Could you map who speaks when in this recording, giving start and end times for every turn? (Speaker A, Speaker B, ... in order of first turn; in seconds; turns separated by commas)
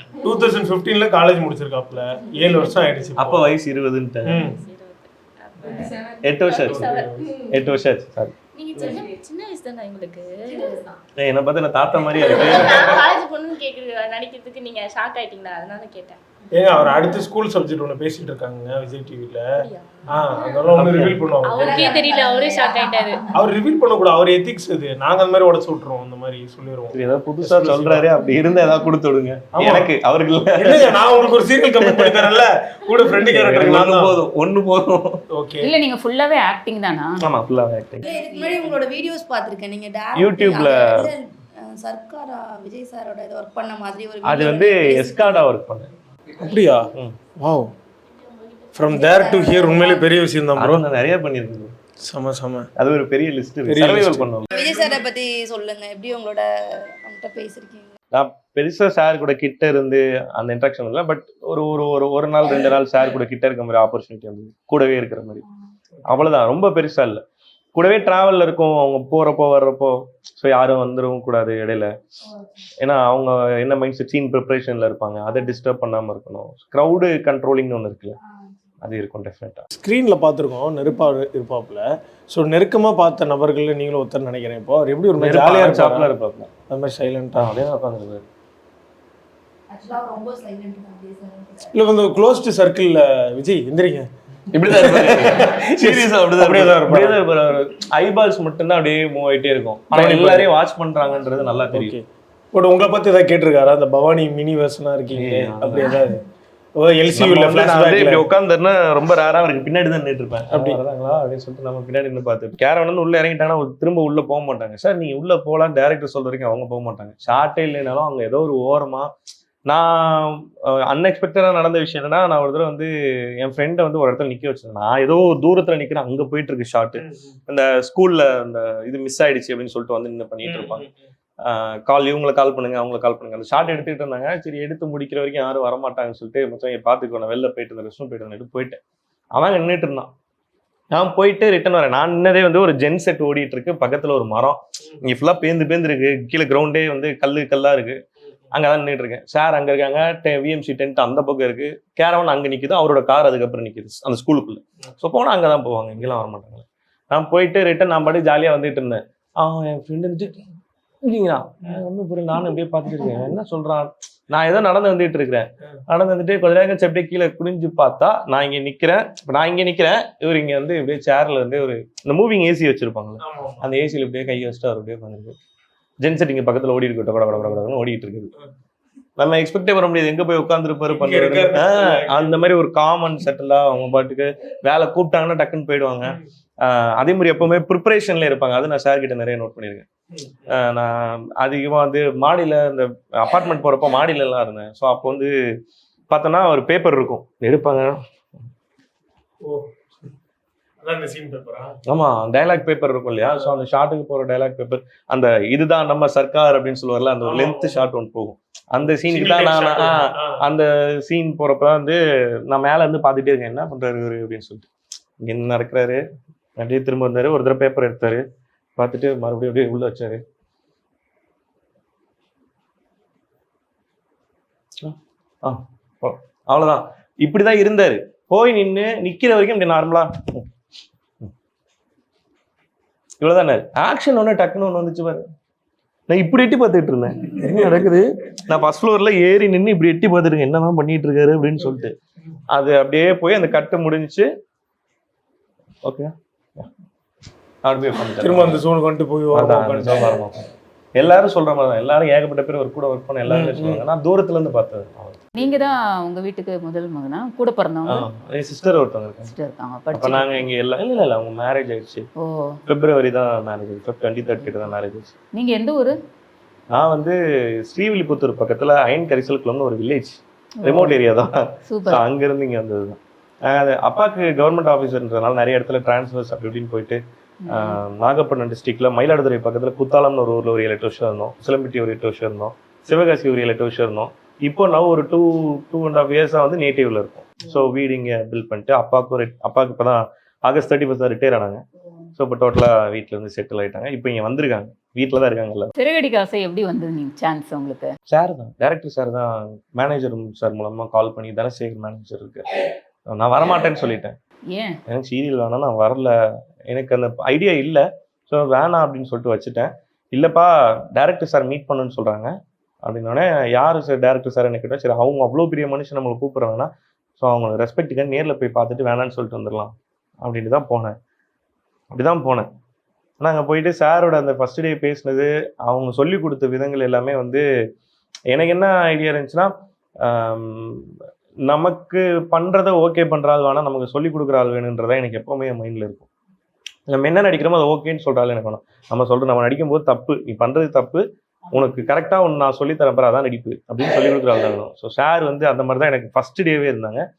Speaker A: 0.2-3.5, Speaker B: 3.2-4.4, Speaker A: 4.3-4.6, Speaker C: 4.4-7.5, Speaker B: 6.2-8.3, Speaker A: 6.6-7.3, Speaker C: 8.6-10.9, Speaker B: 11.2-13.0, Speaker C: 12.2-16.2, Speaker A: 16.5-22.0, Speaker C: 19.6-20.2, Speaker B: 20.7-21.2, Speaker C: 21.4-23.2, Speaker D: 21.5-23.3, Speaker A: 23.3-28.1, Speaker B: 26.9-31.0, Speaker A: 29.5-29.9, Speaker A: 30.6-34.2, Speaker B: 31.7-32.3, Speaker B: 33.1-35.2, Speaker A: 35.3-35.7, Speaker E: 35.6-37.2, Speaker B: 37.2-38.0, Speaker D: 38.0-45.5, Speaker E: 38.0-38.6, Speaker B: 40.2-41.1, Speaker B: 44.2-45.9, Speaker A: 46.4-47.7, Speaker C: 48.1-49.6, Speaker A: 48.8-50.8, Speaker D: 48.9-50.1, Speaker B: 50.6-51.7, Speaker A: 52.0-52.7, Speaker B: 52.8-54.5, Speaker A: 53.7-54.3, Speaker D: 54.5-58.0, Speaker B: 58.1-65.4, Speaker B: 66.1-67.2, Speaker B: 67.8-71.9, Speaker B: 72.8-78.2, Speaker B: 78.8-79.7, Speaker A: 79.7-86.1, Speaker B: 85.2-86.5, Speaker A: 86.7-87.6, Speaker B: 87.4-88.2, Speaker D: 89.7-91.8, Speaker A: 91.7-94.1, Speaker B: 94.5-102.0, Speaker A: 94.7-97.2, Speaker A: 99.9-100.5, Speaker A: 101.7-106.2, Speaker B: 105.2-106.0, Speaker A: 106.8-108.3, Speaker B: 107.1-119.1, Speaker A: 110.5-110.8, Speaker B: 119.7-130.8, Speaker A: 127.0-127.3, Speaker A: 130.4-130.9, Speaker B: 131.4-138.8, Speaker B: 139.3-140.1, Speaker B: 140.9-148.0, Speaker B: 148.5-160.4, Speaker B: 161.0-175.4, Speaker A: 173.2-173.7, Speaker B: 176.0-178.3, Speaker B: 179.2-189.9, Speaker A: 180.9-182.5, Speaker A: 190.1-190.6, Speaker B: 190.5-195.6, Speaker B: 196.1-198.0, Speaker A: 199.4-200.1, Speaker A: 200.8-201.8, Speaker B: 201.9-214.7, Speaker A: 203.2-203.5, Speaker A: 207.2-207.8, Speaker A: 209.1-210.4, Speaker B: 215.2-216.0, Speaker B: 216.6-218.2, Speaker B: 218.8-220.2, Speaker B: 224.8-230.5, Speaker B: 233.2-235.3, Speaker B: 236.1-241.9, Speaker B: 242.5-244.3, Speaker B: 245.8-246.7, Speaker B: 247.6-248.6, Speaker A: 248.2-250.2, Speaker B: 249.3-255.2, Speaker A: 253.3-253.8, Speaker E: 255.4-258.1, Speaker B: 257.9-259.3, Speaker E: 259.3-260.4, Speaker B: 259.9-262.1, Speaker E: 262.2-262.6, Speaker B: 262.7-265.1, Speaker E: 265.4-265.9, Speaker B: 266.7-291.6, Speaker E: 270.6-271.0, Speaker E: 271.7-272.0, Speaker E: 277.5-277.8, Speaker B: 292.2-295.7, Speaker E: 295.8-297.9, Speaker B: 298.1-302.6, Speaker B: 303.1-304.2, Speaker B: 304.9-306.1, Speaker B: 306.7-312.3, Speaker B: 312.8-321.0, Speaker B: 321.9-322.5, Speaker B: 323.2-327.5, Speaker B: 328.3-330.9, Speaker B: 331.5-336.1, Speaker B: 336.9-347.1